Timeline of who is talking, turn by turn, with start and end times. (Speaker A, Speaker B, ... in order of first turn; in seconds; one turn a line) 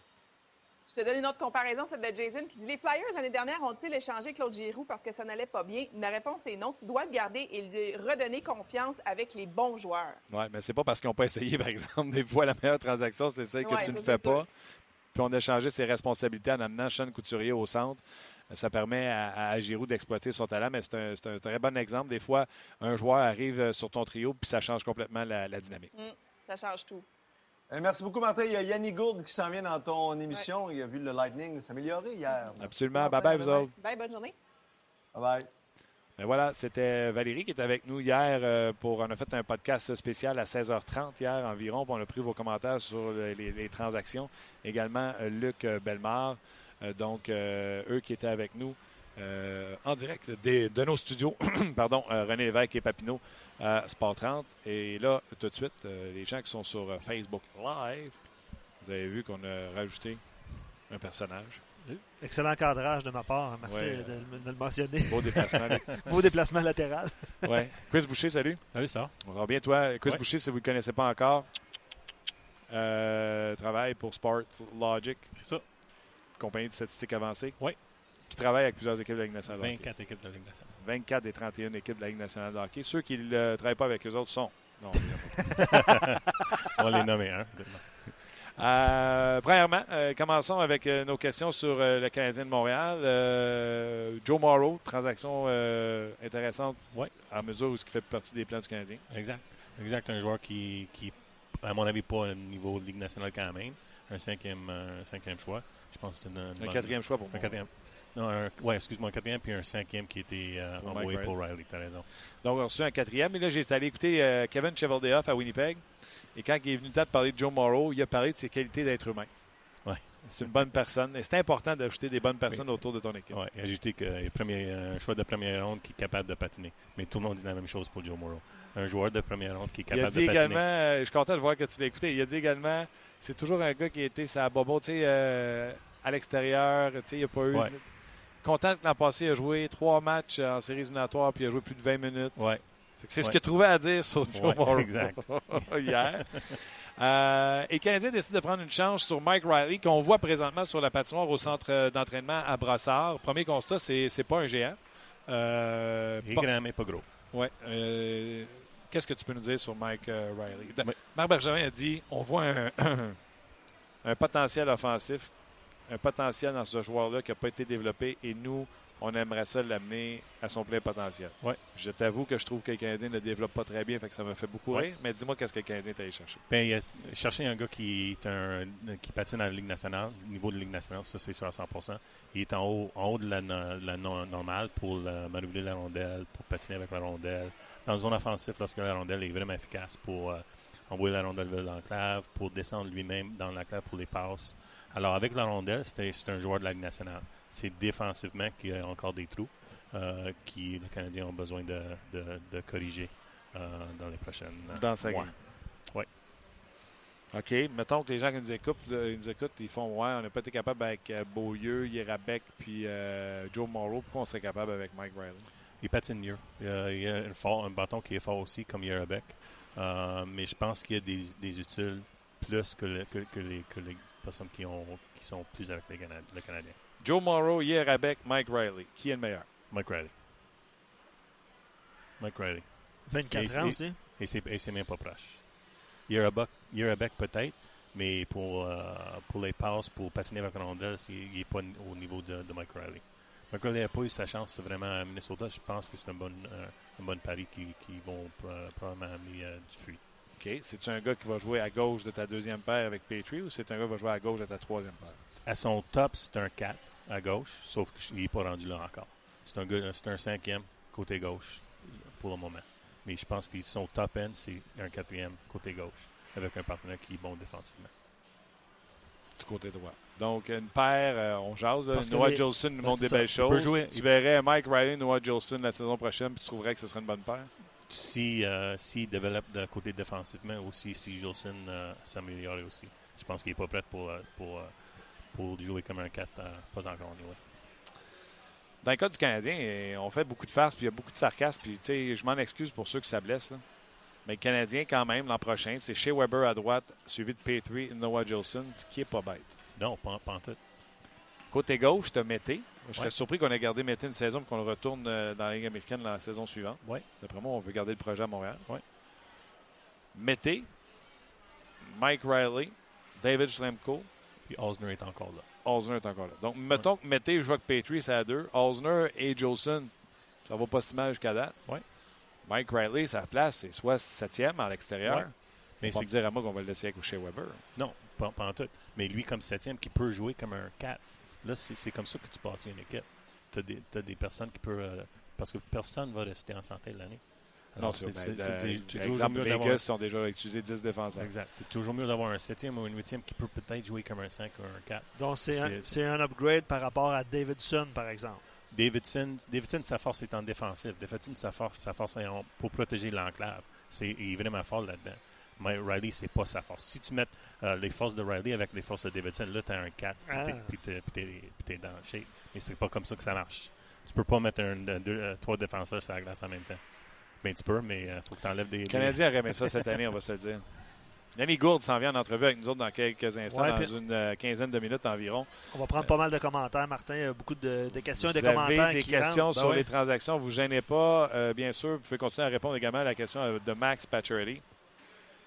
Speaker A: 0.9-10.2
Speaker B: 10.3-14.5
Speaker A: 13.6-14.4
Speaker B: 15.1-25.9
Speaker A: 25.9-27.1
Speaker C: 27.7-33.2
Speaker B: 32.6-33.7
Speaker A: 32.9-34.4
Speaker C: 35.1-35.5
Speaker B: 36.2-61.8
Speaker D: 61.8-67.5
Speaker B: 63.6-66.2
Speaker B: 67.4-71.9
Speaker E: 68.7-70.2
Speaker B: 72.7-85.8
Speaker E: 75.4-75.7
Speaker E: 79.5-80.8
Speaker E: 86.7-88.2
Speaker B: 88.6-99.1
Speaker E: 99.1-112.1
Speaker B: 106.6-107.7
Speaker B: 110.8-123.4
Speaker E: 119.8-120.7
Speaker E: 122.5-130.6
Speaker B: 129.9-163.3
Speaker E: 137.5-137.8
Speaker E: 142.3-146.1
Speaker E: 156.2-157.1
Speaker B: 164.0-176.4
Speaker E: 176.5-206.1
Speaker B: 204.7-205.4
Speaker B: 207.3-215.5
Speaker E: 215.8-226.8
Speaker B: 227.0-229.5
Speaker E: 229.7-230.1
Speaker E: 232.2-250.0
Speaker D: 233.1-234.0
Speaker B: 250.4-255.2
Speaker E: 255.4-267.9
Speaker B: 269.4-277.5
Speaker D: 271.9-273.4
Speaker E: 272.8-274.1
Speaker E: 277.8-287.5
Speaker B: 288.8-299.6
Speaker E: 299.7-300.6
Speaker B: 301.5-308.7
Speaker B: 310.1-310.8
Speaker B: 311.8-314.1
Speaker E: 314.4-315.5
Speaker B: 315.6-327.6
Speaker E: 325.0-326.2
Speaker E: 327.7-339.9
Speaker B: 337.8-341.3
Speaker E: 341.2-346.0
Speaker D: 345.1-348.4
Speaker E: 348.7-369.9
Speaker D: 360.2-360.7
Speaker B: 368.9-376.1
Speaker D: 373.5-373.9
Speaker D: 375.7-379.9
Speaker B: 377.9-384.7